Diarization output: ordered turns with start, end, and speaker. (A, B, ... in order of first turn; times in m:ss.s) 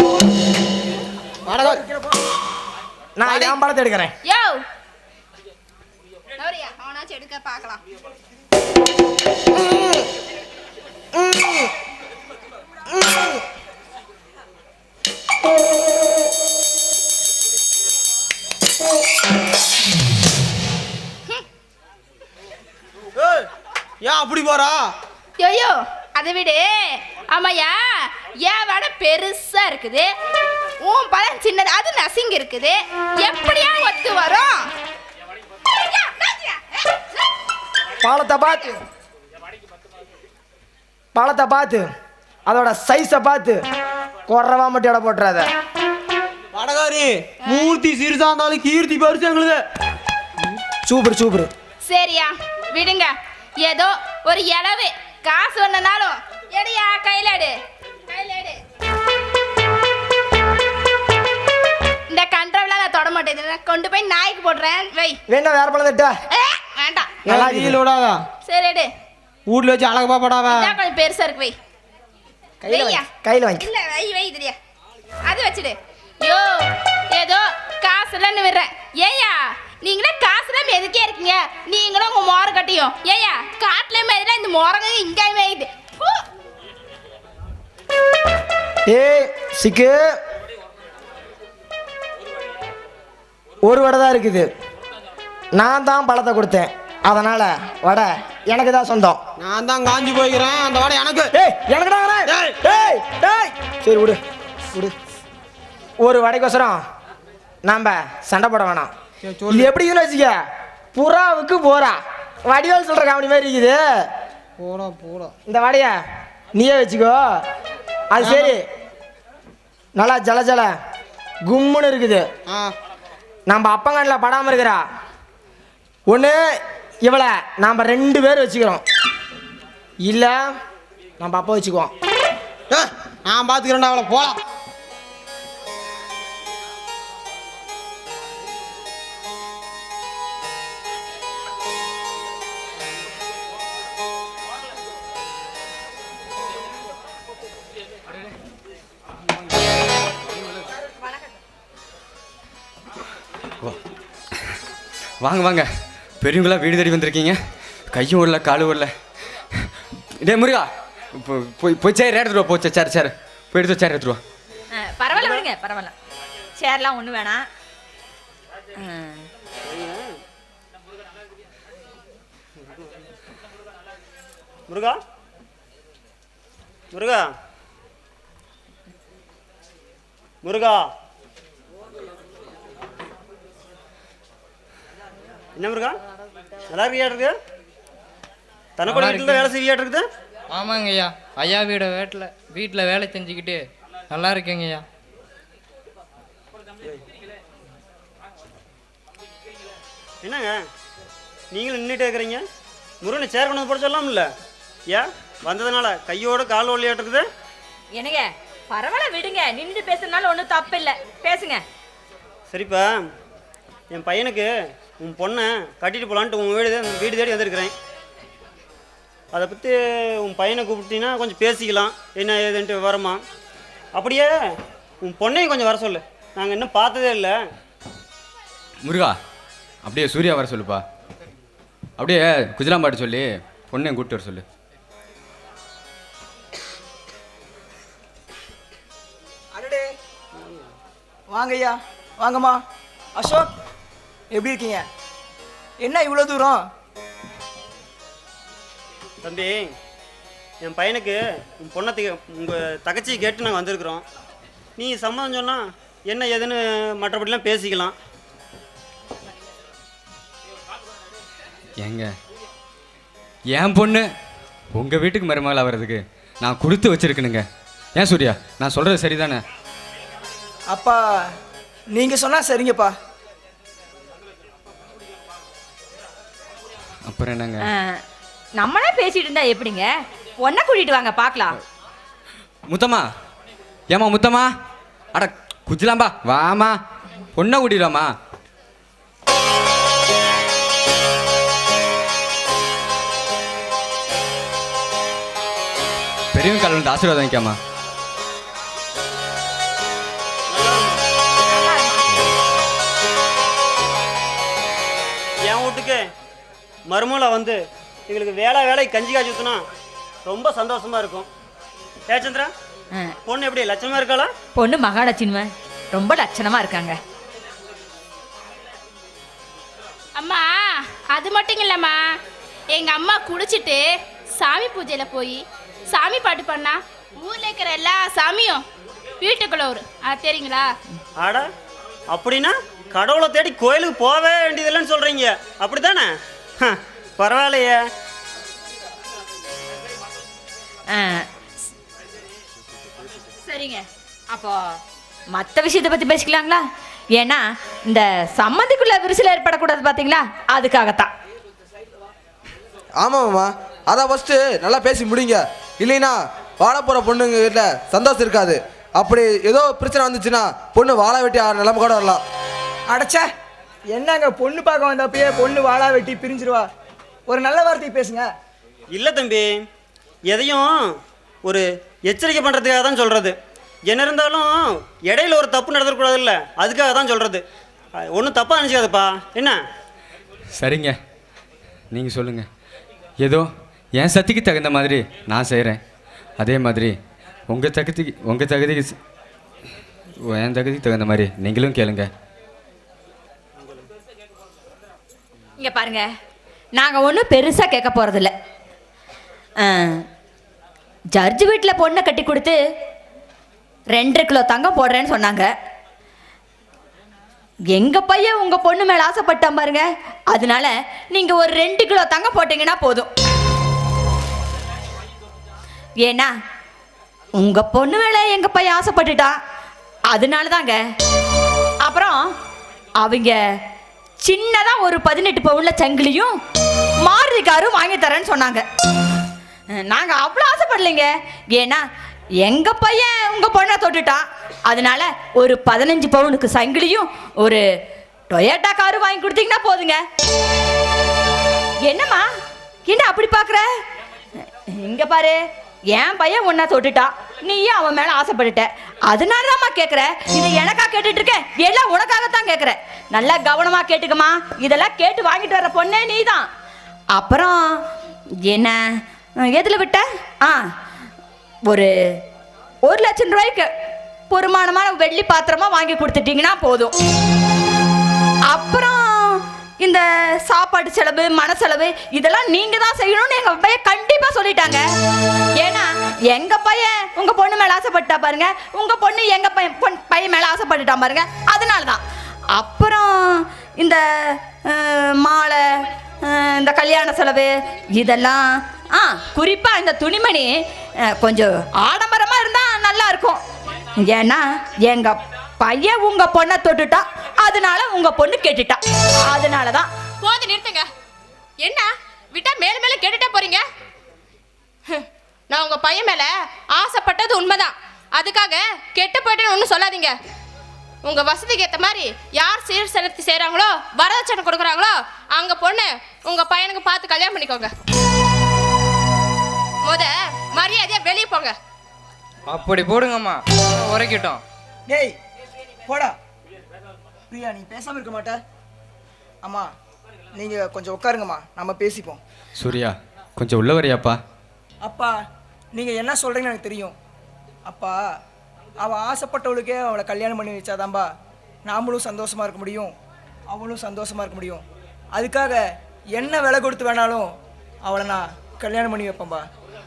0:01.5-0:01.8 A
0:01.5-0:02.1 B
0:03.2-0:04.1 B
0:03.2-0:03.6 A
0:04.2-0:04.6 C
0:06.4-0:07.8 C
0:09.5-0:10.0 B
0:11.1-0:11.7 B
0:12.9-0:13.4 B
0:23.2-0:23.4 A
0:24.0-0:24.8 A
0:25.4-0:30.1 C
0:30.8-0:34.6 C
0:35.7-0:37.0 C
0:38.0-0:38.8 B
0:41.1-0:41.9 B
0:42.4-0:43.6 B
0:44.3-0:45.5 B
0:46.5-0:49.6 A
0:47.5-0:47.8 C
0:50.9-0:51.5 B
0:51.8-0:57.5 C
0:58.1-0:58.6 C
1:02.1-1:05.2 C
1:05.3-1:06.1 B
1:06.3-1:07.2 C
1:07.2-1:08.2 A
1:07.3-1:07.8 B
1:08.4-1:08.9 C
1:09.5-1:10.7 A
1:10.5-1:11.5 C
1:12.6-1:13.6 B
1:12.7-1:14.6 C
1:15.3-1:26.2 C
1:28.9-1:30.2 B
1:33.6-1:34.5 B
1:35.5-1:39.2 B
1:39.4-1:41.3 A
1:41.3-1:44.2 B
1:42.3-1:42.6 A
1:46.0-1:46.8 B
1:47.6-1:48.9 B
1:49.2-1:49.7 A
1:49.5-1:50.4 B
1:50.9-1:54.0 B
1:54.6-1:55.3 A
1:55.5-1:56.0 B
1:56.6-1:57.4 B
1:58.1-1:58.6 B
1:58.2-1:58.5 A
2:00.0-2:00.7 B
2:01.5-2:02.3 B
2:02.5-2:02.7 A
2:03.5-2:04.8 B
2:06.1-2:06.4 B
2:07.0-2:08.8 B
2:10.0-2:10.5 B
2:11.2-2:11.9 B
2:12.7-2:14.4 A
2:35.2-2:35.7 D
2:36.2-2:37.4 D
2:37.9-2:38.9 D
2:39.5-2:44.2 D
2:44.7-2:45.9 E
2:45.1-2:45.4 F
2:46.6-2:47.4 E
2:48.8-2:49.2 E
2:49.6-2:50.1 F
2:54.7-2:55.0 F
2:56.9-2:57.3 F
3:00.4-3:00.8 F
3:05.6-3:06.0 F
3:06.7-3:07.4 F
3:08.8-3:10.0 F
3:08.9-3:09.5 G
3:10.5-3:13.6 G
3:14.1-3:14.8 G
3:20.2-3:20.6 F
3:21.5-3:22.4 F
3:23.0-3:24.3 F
3:24.9-3:27.3 F
3:28.0-3:31.6 E
3:32.5-3:33.0 F
3:33.9-3:37.7 F
3:39.3-3:43.2 F
3:43.9-3:44.3 F
3:45.0-3:47.4 F
3:48.8-3:49.2 D
3:49.8-3:50.8 D
3:52.0-3:54.4 D
3:59.5-3:59.9 H
4:01.3-4:02.6 H
4:03.2-4:03.5 H
4:04.3-4:04.8 H
4:05.8-4:06.6 H
4:09.2-4:09.7 F
4:10.6-4:14.0 F
4:14.8-4:17.9 F
4:21.8-4:22.1 D
4:23.5-4:24.1 D
4:24.7-4:29.4 D
4:30.7-4:31.3 H
4:31.9-4:32.9 H
4:37.0-4:37.6 D
4:37.7-4:38.0 E
4:38.6-4:41.6 E
4:42.7-4:43.1 D
4:43.9-4:44.5 D
4:45.1-4:46.8 D
4:47.4-4:48.1 D
4:56.3-4:57.6 D
5:00.5-5:01.0 F
5:01.5-5:02.1 C
5:05.4-5:06.0 F
5:06.9-5:09.6 F
5:10.2-5:11.3 F
5:12.1-5:12.5 F
5:13.2-5:14.3 F
5:14.6-5:17.0 E
5:20.2-5:22.1 C
5:22.7-5:28.6 C
5:29.2-5:30.7 C
5:31.2-5:31.5 F
5:32.1-5:37.8 F
5:40.9-5:41.2 E
5:43.4-5:44.8 E
5:45.3-5:46.6 E
5:47.2-5:51.1 E
5:53.0-6:02.2 I
6:02.9-6:03.3 H
6:03.9-6:06.7 H
6:07.3-6:08.3 H
6:08.9-6:09.6 F
6:10.3-6:10.9 F
6:11.4-6:13.4 F
6:13.9-6:17.4 F
6:18.0-6:19.6 F
6:20.6-6:21.0 D
6:21.9-6:22.5 D
6:23.2-6:25.8 D
6:26.4-6:27.0 D
6:27.5-6:29.0 D
6:30.2-6:32.1 D
6:35.6-6:36.1 E
6:36.8-6:38.3 E
6:39.6-6:40.0 E
6:41.2-6:42.6 E
6:43.9-6:45.5 E
6:47.7-6:53.1 E
6:56.0-6:56.3 E
6:57.4-6:59.4 E
7:00.1-7:00.8 E
7:01.8-7:02.3 E
7:03.0-7:03.4 E
7:04.2-7:06.4 E
7:07.0-7:08.6 E
7:09.7-7:11.8 E
7:12.4-7:17.6 E
7:18.3-7:20.0 E
7:21.8-7:22.3 E
7:22.9-7:23.6 E
7:24.8-7:25.4 E
7:25.9-7:36.5 E
7:37.2-7:37.8 E
7:38.4-7:38.8 E
7:39.4-7:40.7 E
7:41.7-7:42.2 E
7:42.8-7:43.7 E
7:44.3-7:46.9 E
7:48.5-7:54.8 E
7:55.6-8:02.0 E
8:02.6-8:13.4 E
8:14.0-8:19.9 E
8:20.2-8:20.8 C
8:21.6-8:23.6 C
8:24.9-8:30.1 C
8:31.0-8:37.7 C
8:39.8-8:41.6 C
8:42.5-8:44.4 G
8:44.9-8:45.1 H
8:45.9-8:46.2 H
8:47.3-8:48.4 H
8:49.4-8:49.7 H
8:50.3-8:52.2 H
8:52.6-8:54.2 D
8:54.8-8:55.1 H
8:55.8-8:56.9 H
8:57.6-8:58.0 H
8:58.8-9:01.1 H
9:01.6-9:02.9 H
9:03.5-9:04.6 H
9:05.1-9:05.6 H
9:06.1-9:07.3 H
9:07.8-9:09.4 H